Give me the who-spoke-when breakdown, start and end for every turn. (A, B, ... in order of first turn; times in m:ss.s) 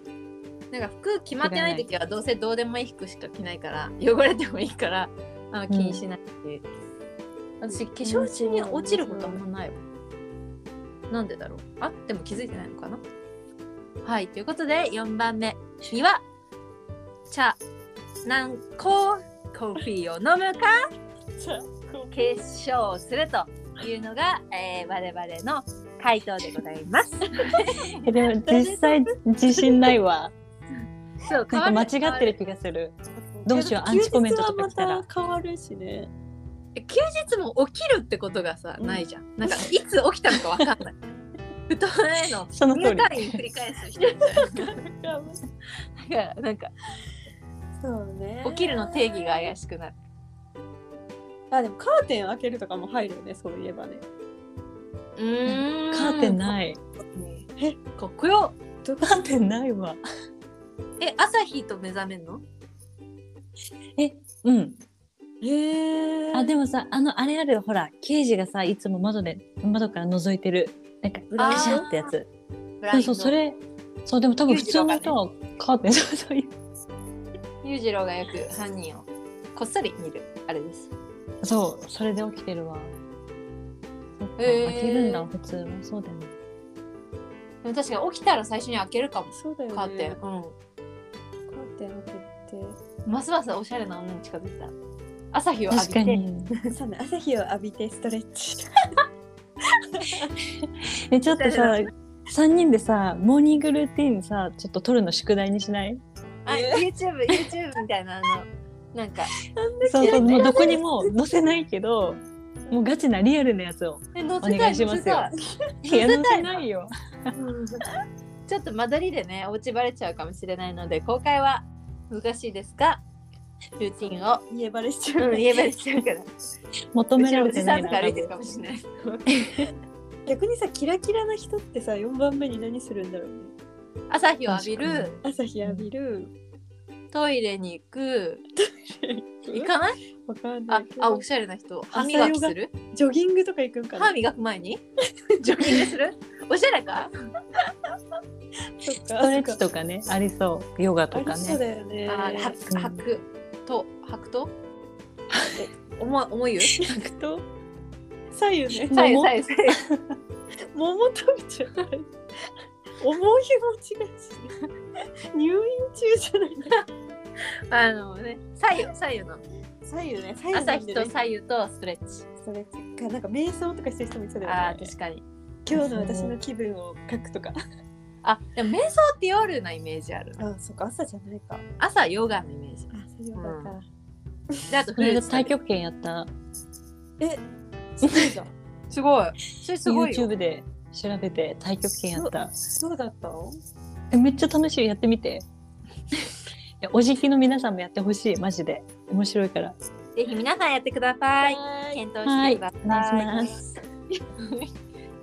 0:00.7-0:06.6 A
0:01.4-0:01.8 B
0:05.7-0:06.0 B
0:07.6-0:09.8 A
0:07.7-0:09.4 C
0:11.1-0:13.0 A
0:14.0-0:16.2 A
0:17.3-0:17.6 A
0:18.2-0:20.7 A
0:21.4-0:22.4 C
0:22.1-0:28.0 A
0:28.0-0:30.3 B
0:28.4-0:29.9 C
0:31.2-0:32.3 A
0:31.5-0:35.0 B
0:33.2-0:36.1 C
0:36.8-0:41.0 A
0:38.8-0:39.0 C
0:41.7-0:44.7 A
0:42.5-0:43.4 B
0:44.0-0:45.4 C
0:46.0-0:46.7 A
0:47.8-0:49.4 C
0:48.4-0:49.9 A
0:51.5-0:54.0 C
0:55.2-0:56.5 A
0:55.4-0:56.8 B
0:57.1-0:57.4 A
0:58.0-0:58.6 A
0:58.8-0:59.3 C
0:59.0-1:00.0 B
1:01.0-1:02.4 A
1:04.0-1:04.8 B
1:05.4-1:06.5 C
1:06.3-1:12.3 B
1:11.3-1:11.8 C
1:11.4-1:12.1 A
1:12.8-1:13.4 A
1:12.9-1:16.5 B
1:14.5-1:15.2 A
1:17.6-1:20.9 A
1:21.4-1:22.9 B
1:24.2-1:26.3 B
1:24.4-1:25.3 A
1:27.6-1:30.5 A
1:29.3-1:30.2 C
1:31.5-1:32.8 C
1:33.0-1:34.7 A
1:35.3-1:36.2 A
1:35.7-1:36.5 B
1:36.7-1:38.7 C
1:39.9-1:40.3 C
1:41.1-1:46.0 B
1:41.3-1:41.9 A
1:46.4-1:49.3 A
1:46.5-1:46.8 C
1:49.5-1:51.2 C
1:49.8-1:55.3 B
1:50.0-1:50.6 A
1:54.1-1:56.6 A
1:55.8-1:56.9 B
1:57.4-1:57.8 A
1:58.5-2:03.0 A
2:03.8-2:04.4 A
2:04.0-2:05.7 C
2:05.2-2:06.3 A
2:06.9-2:08.3 B
2:07.2-2:08.8 A
2:09.0-2:09.7 C
2:10.2-2:13.5 C
2:14.1-2:15.2 A
2:14.5-2:15.9 B
2:15.2-2:16.3 C
2:17.1-2:18.4 A
2:18.6-2:19.7 C
2:19.4-2:20.0 A
2:20.2-2:21.2 C
2:20.7-2:22.7 A
2:21.9-2:24.1 C
2:23.9-2:24.8 A
2:25.4-2:27.1 A
2:25.6-2:25.9 C
2:28.8-2:29.6 C
2:29.2-2:31.6 B
2:31.1-2:32.5 C
2:32.1-2:34.5 A
2:32.7-2:33.0 B
2:35.8-2:36.8 A
2:36.7-2:37.4 C
2:38.3-2:39.0 C
2:38.9-2:40.0 B
2:38.9-2:39.8 A
2:40.7-2:42.1 C
2:43.0-2:44.6 C
2:45.3-2:46.8 C
2:47.7-2:49.4 A
2:49.8-2:51.1 C
2:50.5-2:52.2 A
2:52.4-2:54.9 C
2:54.4-2:55.2 A
2:55.6-2:57.6 C
2:55.7-2:56.4 B
2:58.2-3:00.4 A
3:00.4-3:01.6 C
3:01.8-3:03.8 A
3:02.9-3:03.9 C
3:04.7-3:05.5 A
3:05.0-3:06.3 B
3:08.0-3:08.5 C
3:08.9-3:10.3 A
3:09.8-3:12.5 B
3:12.1-3:13.6 C
3:14.1-3:15.4 B
3:16.8-3:19.8 B
3:20.2-3:23.6 A
3:21.4-3:22.0 C
3:22.2-3:23.6 B
3:24.1-3:24.7 A